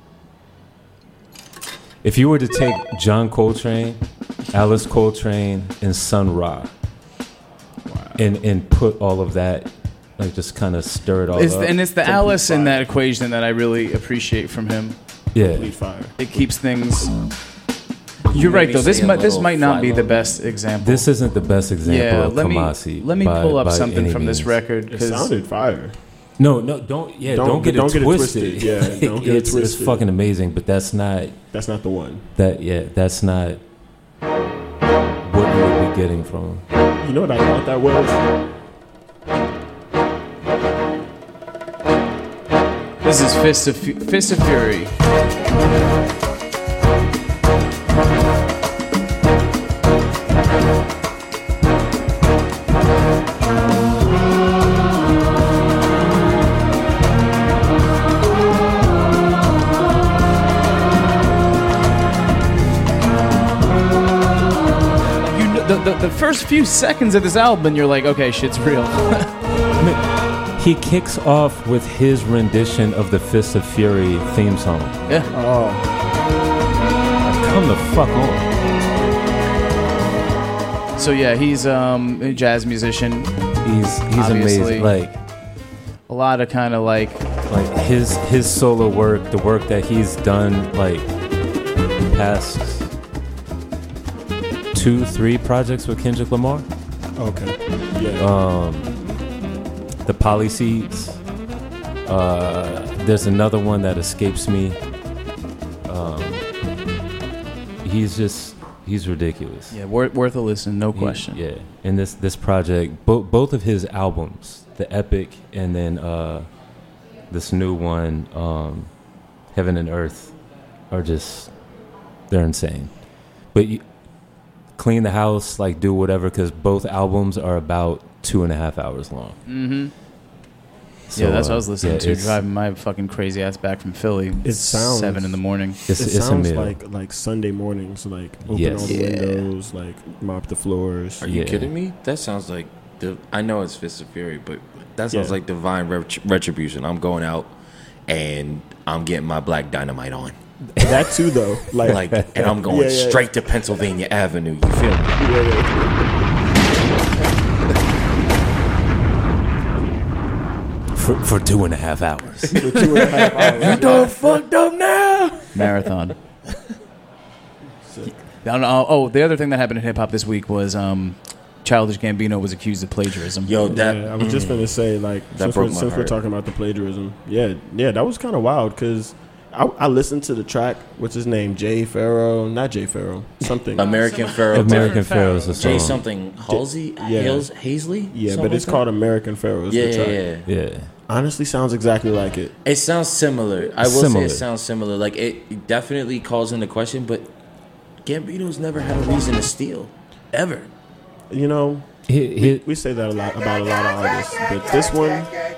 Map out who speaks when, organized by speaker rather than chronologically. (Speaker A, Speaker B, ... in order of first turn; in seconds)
Speaker A: 2.0-4.0, 4.5-6.7, 8.2-12.1, 15.3-15.7, 20.8-24.5, 26.4-31.4, 32.4-33.6, 35.2-36.6, 69.8-75.0, 77.2-78.5, 83.6-85.2, 87.5-91.1, 92.1-92.9, 94.7-96.7, 98.2-99.0, 100.0-101.2, 102.0-104.8, 105.8-106.4, 107.8-109.7, 110.9-116.5, 117.3-118.9, 119.5-120.3, 120.9-121.5, 122.3-122.9, 123.5-123.8, 124.8-129.4, 131.1-132.4, 135.9-136.8, 138.5-139.0, 141.2-141.7, 151.9-152.5, 160.9-163.0, 184.5-186.0, 190.5-190.9, 193.8-194.4, 202.1-202.6
Speaker B: 7.9-8.2, 12.1-12.9, 15.4-16.4, 24.9-25.9, 27.2-30.1, 31.5-32.3, 37.0-38.2, 75.3-75.9, 97.2-98.3, 134.4-141.2, 145.1-145.4, 150.8-153.5, 155.2-156.1, 162.5-164.2, 167.8-168.2, 173.7-183.9, 186.4-187.5, 188.1-190.2, 191.1-192.5, 201.3-205.3
Speaker C: 11.3-15.0, 16.2-17.1, 18.3-21.1, 21.8-25.3, 43.0-44.9, 65.2-69.3, 75.1-75.3, 81.0-83.4, 84.1-84.9, 86.1-87.2, 109.7-111.4, 129.5-129.9, 131.2-135.8, 138.8-139.4, 165.5-166.2, 168.4-173.7, 183.8-185.9
Speaker D: 18.3-20.2, 141.2-147.5, 148.1-150.3, 151.8-155.2, 162.8-165.6, 173.4-174.7, 175.3-176.2, 183.7-188.8, 189.7-190.5, 192.7-197.3, 198.0-200.7